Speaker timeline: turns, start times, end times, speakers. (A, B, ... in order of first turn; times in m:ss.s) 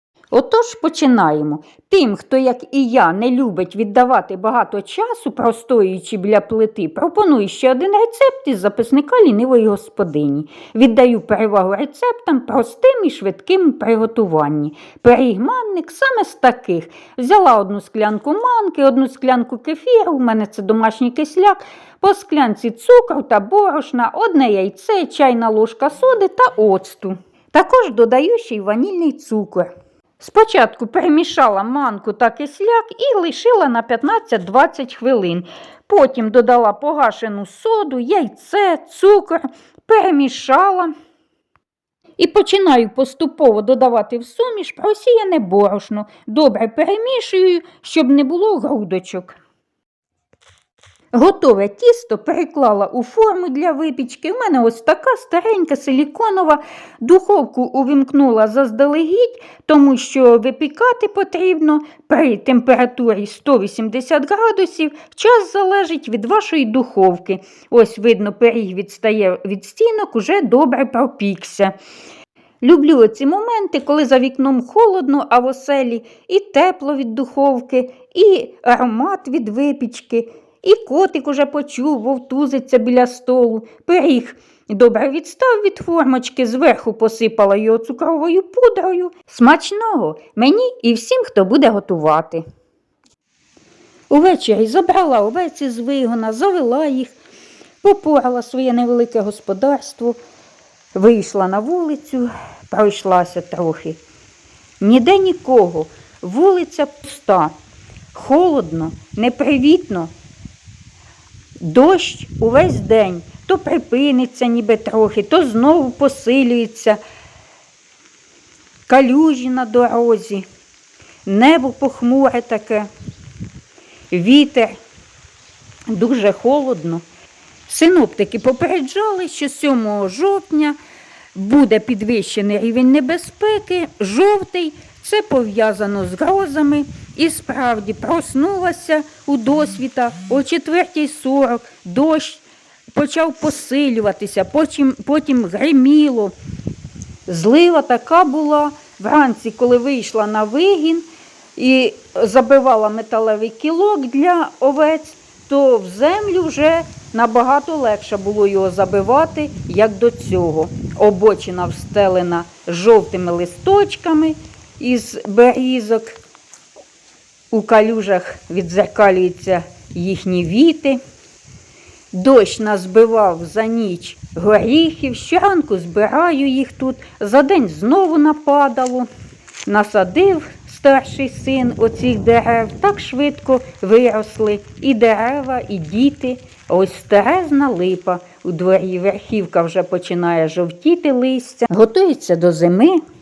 0:00.3-0:40.9 A
0:42.2-0:49.4 A
0:51.1-1:11.7 A
1:12.6-1:32.4 A
1:34.1-1:37.2 A
1:37.8-1:40.2 A
1:40.9-1:44.0 A
1:44.8-1:47.5 A
1:48.1-1:50.1 A
1:51.6-1:57.0 A
1:58.9-2:00.4 A
2:01.3-2:02.9 A
2:04.1-2:04.8 A
2:05.9-2:07.0 A
2:07.7-2:10.8 A
2:11.4-2:22.4 A
2:22.9-2:26.4 A
2:27.3-2:46.2 A
2:47.5-2:51.0 A
2:52.1-2:59.1 A
2:59.7-3:13.0 A